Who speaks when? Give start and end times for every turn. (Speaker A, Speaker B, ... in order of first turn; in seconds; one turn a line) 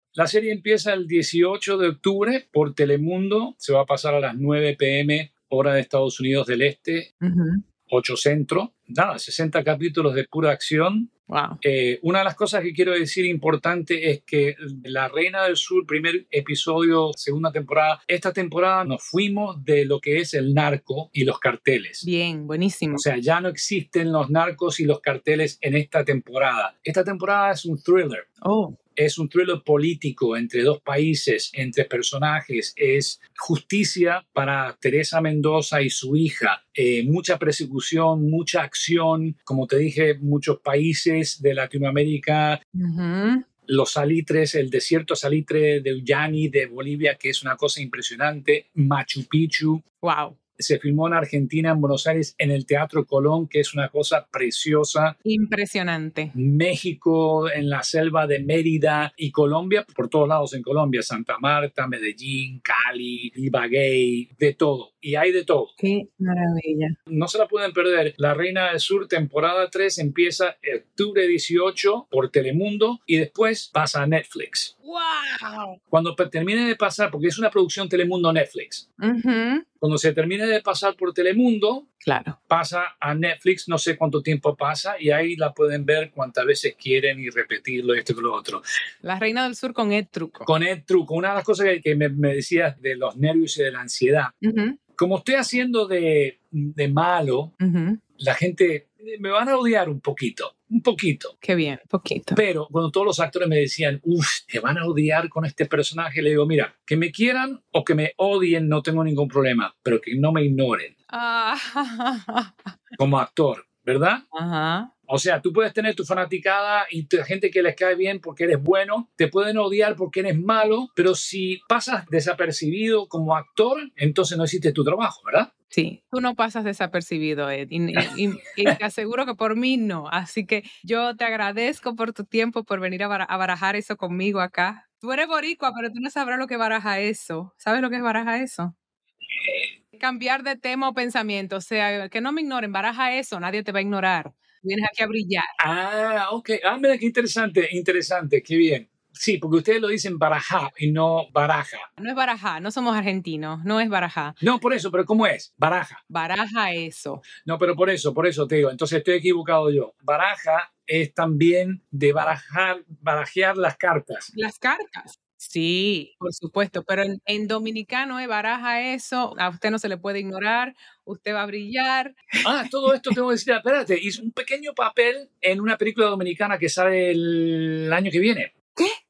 Speaker A: 0.1-7.1
Speaker B: 7.2-7.6
Speaker A: 7.9-11.1
Speaker B: 11.3-11.6
Speaker A: 11.6-22.0
Speaker B: 22.0-23.1
Speaker A: 22.9-28.3
Speaker B: 28.4-28.8
Speaker A: 29.0-42.6
Speaker B: 42.8-43.5
Speaker A: 43.7-49.8
Speaker B: 50.0-50.4
Speaker A: 50.6-55.1
Speaker B: 55.2-56.4
Speaker A: 56.4-65.7
Speaker B: 65.8-67.0
Speaker A: 67.1-74.8
Speaker B: 74.8-75.8
Speaker A: 75.9-78.8
Speaker B: 79.0-79.7
Speaker A: 79.8-81.9
Speaker B: 82.0-82.4
Speaker A: 82.5-88.6
Speaker B: 89.0-90.5
Speaker A: 90.5-94.3
Speaker B: 94.4-94.8
Speaker A: 95.0-97.5
Speaker B: 97.6-98.0
Speaker A: 98.2-101.3
Speaker B: 101.4-102.4
Speaker A: 102.3-110.9
Speaker B: 111.1-112.7
Speaker A: 113.0-114.2
Speaker B: 114.3-114.9
Speaker A: 115.1-125.5
Speaker B: 125.7-138.8
Speaker A: 139.4-139.7
Speaker B: 139.9-145.5
Speaker A: 145.6-151.9
Speaker B: 152.0-154.4
Speaker A: 154.4-156.0
Speaker B: 156.1-157.2
Speaker A: 157.4-164.3
Speaker B: 164.3-172.4
Speaker A: 172.4-178.5
Speaker B: 172.9-173.2